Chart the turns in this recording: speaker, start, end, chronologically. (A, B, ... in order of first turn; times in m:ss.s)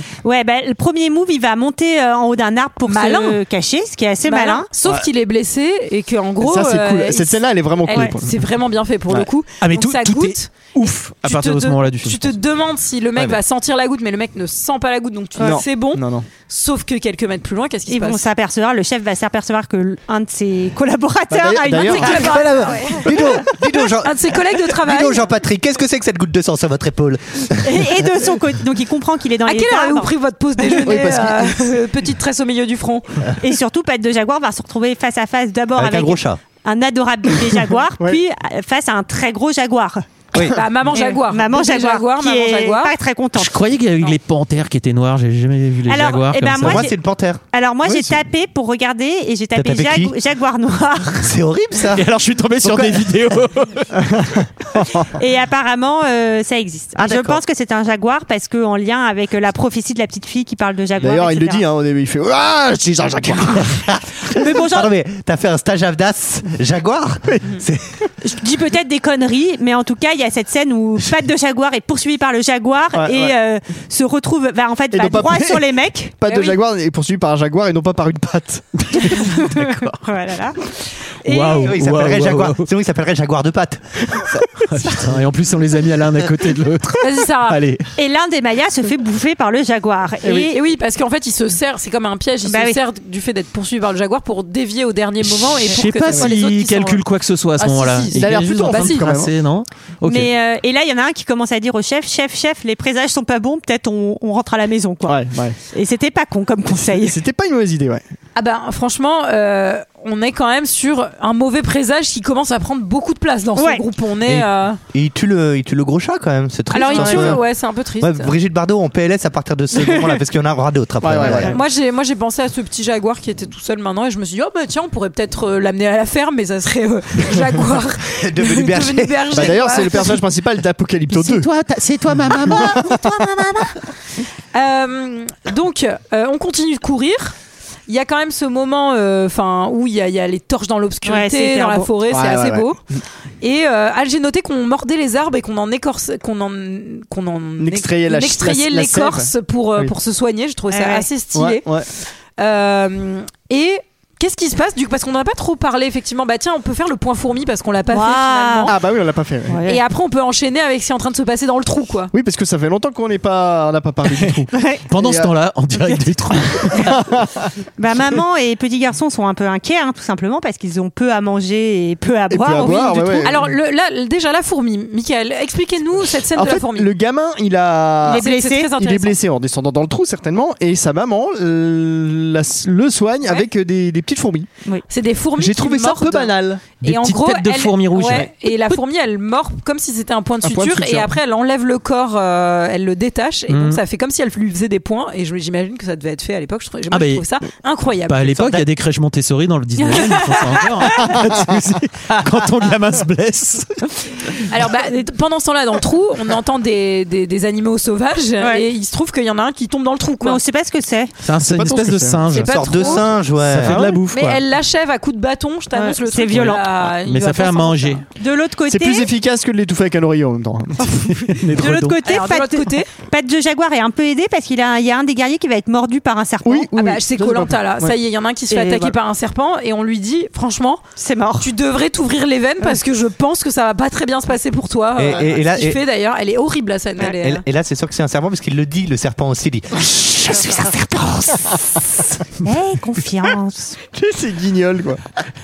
0:00.2-0:04.7 A
0:02.9-0:03.4 B
0:04.2-0:18.2 B
0:06.4-0:08.4 C
0:09.6-0:12.4 D
0:15.4-0:16.3 C
0:17.9-0:23.0 A
0:21.3-0:22.2 C
0:21.8-0:23.4 B
0:22.1-0:28.0 E
0:24.0-0:25.2 B
0:27.6-0:30.1 A
0:29.5-0:33.1 B
0:30.8-0:31.1 A
0:30.8-0:31.6 C
0:33.4-0:40.0 A
0:35.8-0:36.4 E
0:40.5-0:42.9 B
0:40.9-0:44.1 A
0:43.4-0:46.8 D
0:45.9-0:47.0 A
0:46.6-0:48.2 E
0:47.5-0:51.4 A
0:49.6-0:50.2 E
0:51.2-0:52.0 E
0:51.9-0:54.0 D
0:52.6-0:53.1 E
0:54.0-0:55.0 C
0:55.1-1:01.6 A
0:57.0-0:57.4 E
1:01.0-1:03.8 C
1:03.7-1:08.1 E
1:04.3-1:04.9 A
1:08.2-1:16.4 A
1:12.9-1:13.4 C
1:14.9-1:15.7 C
1:16.2-1:19.1 C
1:18.9-1:20.0 D
1:19.1-1:20.6 A
1:21.2-1:22.7 D
1:21.3-1:21.6 A
1:21.6-1:24.6 E
1:24.7-1:27.9 D
1:27.0-1:27.6 B
1:28.0-1:30.6 A
1:30.2-1:30.5 C
1:30.5-1:37.0 B
1:32.4-1:32.8 A
1:35.6-1:40.3 D
1:37.6-1:39.0 B
1:38.1-1:39.3 C
1:40.0-1:45.2 A
1:45.1-1:45.6 C
1:45.7-1:47.2 A
1:46.8-1:48.0 C
1:48.4-1:54.8 B
1:53.6-1:53.8 A
1:54.3-1:57.5 E
1:56.7-1:58.3 B
1:56.9-1:57.3 A
1:58.0-2:01.6 E
2:01.0-2:01.5 C
2:01.5-2:10.2 B
2:08.2-2:09.5 E
2:09.3-2:11.5 C
2:11.1-2:13.3 D
2:12.4-2:13.0 C
2:12.7-2:13.8 A
2:14.5-2:17.4 B
2:17.9-2:22.8 B
2:21.0-2:21.9 A
2:22.1-2:23.0 C
2:23.4-2:38.7 B
2:27.6-2:29.9 C
2:30.7-2:31.1 A
2:31.3-2:31.9 C
2:37.9-2:38.8 A
2:38.7-2:39.6 C
2:39.5-2:39.8 A
2:39.6-2:42.1 B
2:42.1-2:45.3 C
2:44.5-2:44.8 A
2:44.9-2:46.9 D
2:46.7-2:47.5 C
2:47.8-2:53.4 A
2:52.3-2:53.5 C
2:53.2-2:56.9 B
2:56.3-3:04.5 C
2:58.1-2:59.2 B
2:58.1-2:58.7 A
3:04.9-3:18.5 B
3:05.4-3:06.6 C
3:06.8-3:08.3 D
3:10.4-3:11.2 C
3:13.5-3:13.8 D
3:16.9-3:17.2 D
3:18.1-3:24.4 D
3:18.3-3:18.6 E
3:19.8-3:20.3 A
3:21.0-3:21.6 C
3:24.5-3:30.4 B
3:28.4-3:28.6 A
3:30.2-3:31.1 A
3:31.2-3:34.4 D
3:31.4-3:32.3 C
3:32.3-3:33.1 B
3:32.3-3:33.8 E
3:33.6-3:34.0 C
3:34.1-3:38.0 B
3:35.7-3:36.7 A
3:36.4-3:38.0 D
3:38.2-3:39.1 A
3:38.7-3:41.1 C
3:41.3-3:42.0 D
3:41.6-3:46.7 A
3:42.0-3:42.9 B
3:46.4-3:47.9 C
3:46.8-3:50.8 B
3:48.5-3:49.0 A
3:51.0-3:51.5 A
3:51.4-3:57.4 B
3:55.0-3:55.8 E
3:57.0-4:01.6 E
4:02.4-4:03.8 A
4:03.9-4:05.0 C